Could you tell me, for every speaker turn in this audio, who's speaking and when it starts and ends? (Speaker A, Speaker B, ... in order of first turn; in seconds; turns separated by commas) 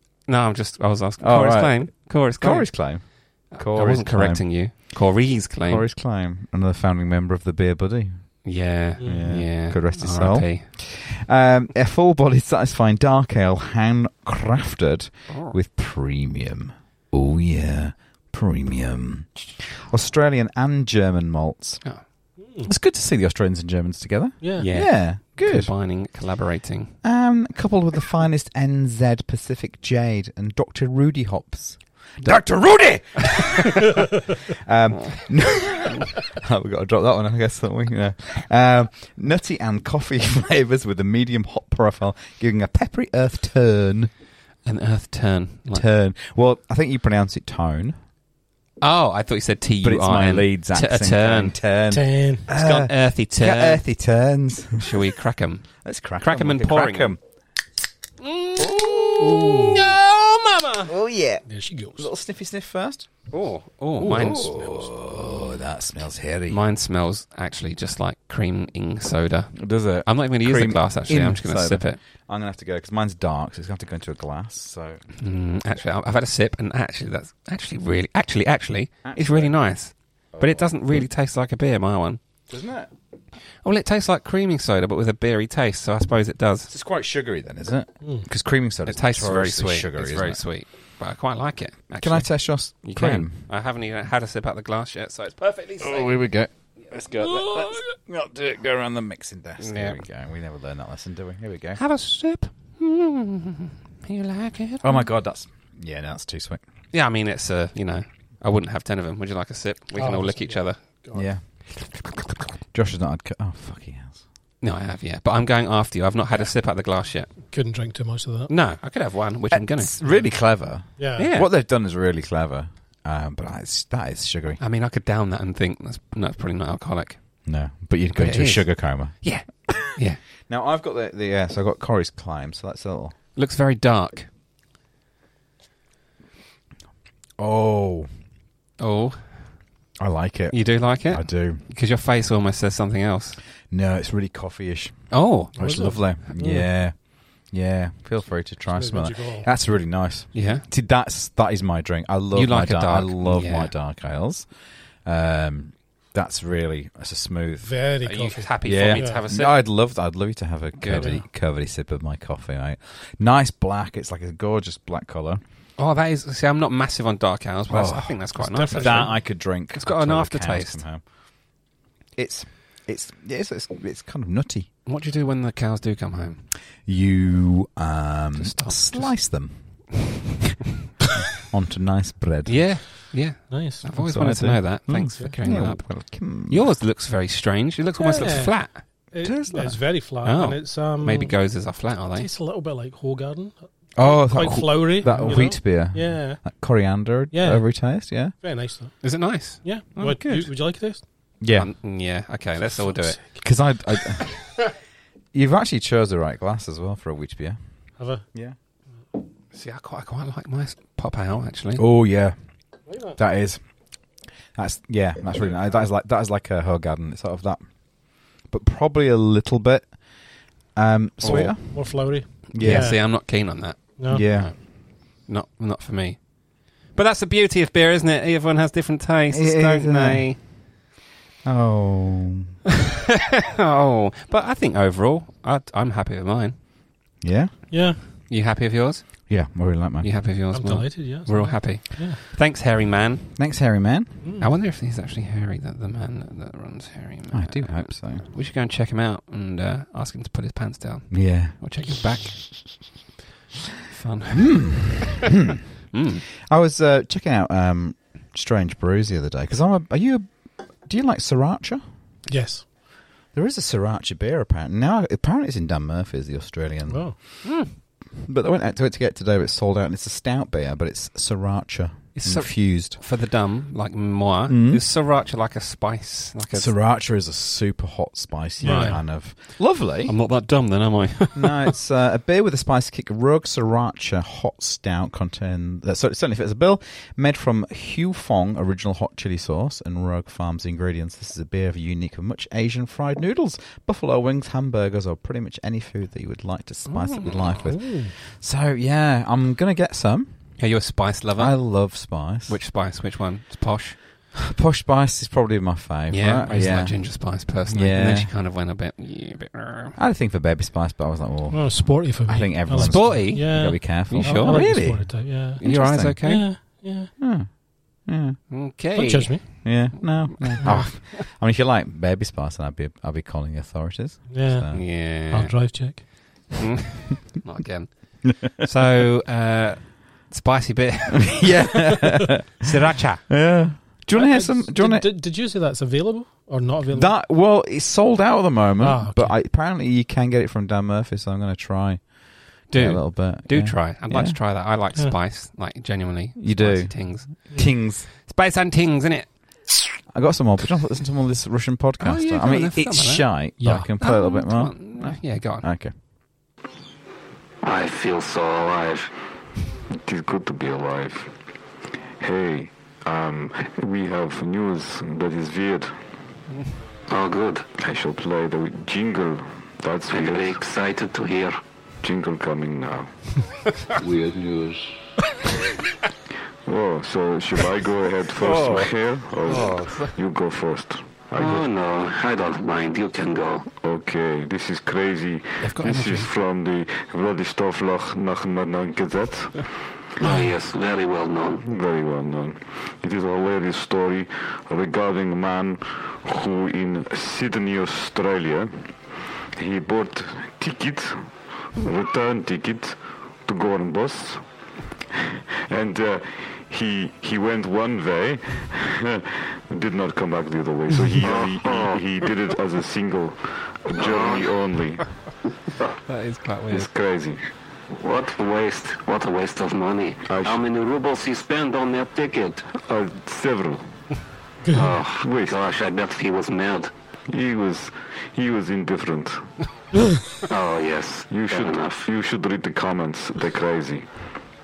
Speaker A: 0.3-5.9, Speaker B: 1.2-4.8, Speaker B: 5.7-8.3, Speaker A: 8.4-10.7, Speaker C: 9.0-9.5, Speaker B: 9.0-21.8, Speaker A: 15.3-15.6, Speaker C: 22.4-22.7, Speaker B: 22.6-25.7, Speaker C: 24.4-24.7, Speaker A: 24.6-26.9, Speaker B: 27.0-44.1, Speaker A: 44.6-45.9, Speaker B: 45.7-48.0, Speaker A: 48.8-51.6, Speaker B: 49.8-55.0, Speaker C: 51.9-52.4, Speaker A: 52.5-53.8, Speaker A: 54.8-57.2, Speaker B: 55.8-57.2, Speaker A: 58.2-60.9, Speaker B: 58.6-60.0, Speaker C: 59.2-59.9, Speaker B: 60.9-61.5, Speaker C: 61.5-62.1, Speaker B: 62.0-63.1, Speaker A: 63.3-64.9, Speaker B: 64.0-66.6, Speaker A: 66.5-72.0, Speaker B: 69.5-75.0, Speaker A: 75.2-82.2, Speaker B: 79.0-79.6, Speaker B: 80.3-81.0, Speaker B: 82.5-82.9, Speaker A: 83.6-86.7, Speaker B: 86.7-90.4, Speaker A: 88.9-96.2, Speaker B: 92.0-93.5, Speaker B: 95.8-101.8, Speaker A: 99.6-100.0, Speaker A: 101.8-105.0, Speaker B: 104.8-106.6, Speaker A: 106.9-110.8, Speaker C: 110.0-111.3, Speaker B: 111.1-114.2, Speaker A: 114.6-117.4, Speaker C: 117.4-118.5, Speaker A: 118.5-120.0, Speaker B: 119.5-124.6, Speaker C: 121.0-121.3, Speaker A: 121.2-121.5, Speaker A: 124.6-127.4, Speaker B: 127.5-133.2, Speaker A: 128.2-130.2, Speaker A: 133.3-134.3, Speaker B: 137.4-138.1, Speaker A: 138.8-139.5, Speaker B: 140.0-141.6, Speaker A: 140.5-143.4, Speaker B: 143.7-157.7, Speaker A: 145.1-146.2, Speaker C: 145.6-146.7, Speaker C: 148.7-149.5, Speaker A: 150.3-150.7, Speaker A: 152.3-153.7, Speaker C: 157.6-159.2, Speaker A: 158.0-159.6, Speaker B: 158.6-165.4, Speaker A: 160.8-161.2, Speaker A: 165.8-170.8, Speaker B: 167.7-168.2, Speaker C: 168.4-169.2, Speaker B: 168.7-171.0, Speaker B: 172.2-174.7, Speaker A: 174.9-176.4, Speaker B: 176.8-180.1, Speaker A: 178.3-179.2, Speaker B: 181.3-182.9, Speaker A: 182.5-188.8, Speaker C: 183.5-183.9, Speaker B: 183.9-186.7, Speaker C: 185.1-185.7, Speaker C: 188.0-191.4, Speaker B: 189.2-189.9, Speaker A: 190.2-192.3, Speaker C: 192.2-196.6, Speaker B: 194.0-198.4, Speaker A: 195.1-195.4, Speaker C: 197.3-201.0, Speaker A: 199.0-200.5, Speaker B: 201.4-201.7, Speaker A: 201.5-203.2, Speaker C: 202.7-203.4, Speaker B: 203.4-204.6, Speaker B: 205.3-207.6, Speaker C: 208.0-208.2, Speaker A: 209.5-211.8, Speaker B: 211.8-212.4, Speaker C: 212.9-213.2, Speaker B: 213.0-213.6, Speaker B: 214.5-223.0, Speaker C: 221.2-223.2, Speaker A: 222.5-230.4, Speaker C: 224.0-224.3, Speaker B: 224.1-224.6, Speaker B: 229.3-230.5, Speaker B: 231.4-232.5, Speaker A: 233.6-236.6, Speaker B: 237.2-237.6, Speaker C: 237.7-238.0, Speaker A: 238.1-239.5, Speaker B: 239.3-240.1, Speaker A: 240.0-243.3, Speaker C: 240.5-242.2, Speaker B: 243.4-244.2, Speaker C: 244.2-244.5, Speaker A: 244.4-252.7, Speaker B: 247.3-248.2, Speaker B: 251.1-251.6, Speaker A: 253.9-255.3, Speaker B: 254.3-255.6, Speaker A: 255.9-256.2, Speaker B: 256.4-261.8, Speaker C: 262.3-262.6, Speaker B: 263.3-267.5, Speaker C: 266.9-267.2, Speaker A: 267.4-267.7, Speaker B: 268.2-273.0, Speaker A: 272.1-276.7, Speaker B: 274.5-274.8, Speaker B: 276.5-280.1, Speaker C: 278.6-279.0, Speaker A: 278.6-279.0, Speaker A: 280.1-281.7, Speaker B: 281.4-300.5, Speaker A: 296.9-297.6, Speaker C: 297.6-298.1, Speaker A: 300.6-301.6, Speaker B: 301.4-302.6, Speaker A: 302.5-304.0, Speaker B: 304.4-308.3, Speaker A: 306.1-309.9, Speaker B: 310.0-316.2, Speaker C: 311.5-317.1, Speaker A: 312.7-315.0, Speaker A: 315.6-316.5, Speaker B: 317.2-318.4, Speaker A: 318.5-321.1, Speaker C: 318.9-319.8, Speaker B: 319.6-324.9, Speaker C: 320.6-320.9, Speaker C: 324.3-326.6, Speaker A: 324.7-333.3, Speaker B: 331.3-332.7, Speaker B: 333.3-335.1, Speaker C: 334.1-337.2, Speaker B: 336.9-344.4, Speaker C: 338.8-339.4, Speaker A: 342.7-349.3, Speaker B: 346.4-348.1, Speaker B: 350.1-355.9, Speaker A: 352.0-353.3, Speaker C: 353.6-353.9, Speaker A: 354.0-355.7, Speaker D: 357.6-359.1, Speaker E: 359.9-361.3, Speaker E: 362.2-366.0, Speaker D: 367.1-367.7, Speaker E: 367.8-370.6, Speaker D: 370.1-371.6, Speaker E: 372.0-373.1, Speaker E: 376.7-381.6, Speaker A: 378.4-378.9, Speaker A: 379.5-380.1, Speaker D: 381.4-383.6, Speaker E: 383.7-389.7, Speaker A: 385.6-386.3, Speaker D: 390.2-391.6, Speaker E: 391.6-398.9, Speaker E: 399.6-404.4, Speaker E: 405.1-415.1, Speaker D: 411.2-412.0, Speaker D: 413.9-414.5, Speaker A: 416.1-416.9, Speaker E: 416.7-417.4, Speaker D: 418.0-422.7, Speaker E: 420.3-420.6, Speaker E: 422.8-423.9, Speaker D: 424.7-426.9, Speaker E: 425.0-425.6, Speaker E: 427.3-429.5, Speaker C: 430.0-430.2, Speaker D: 430.5-432.1, Speaker E: 431.3-434.1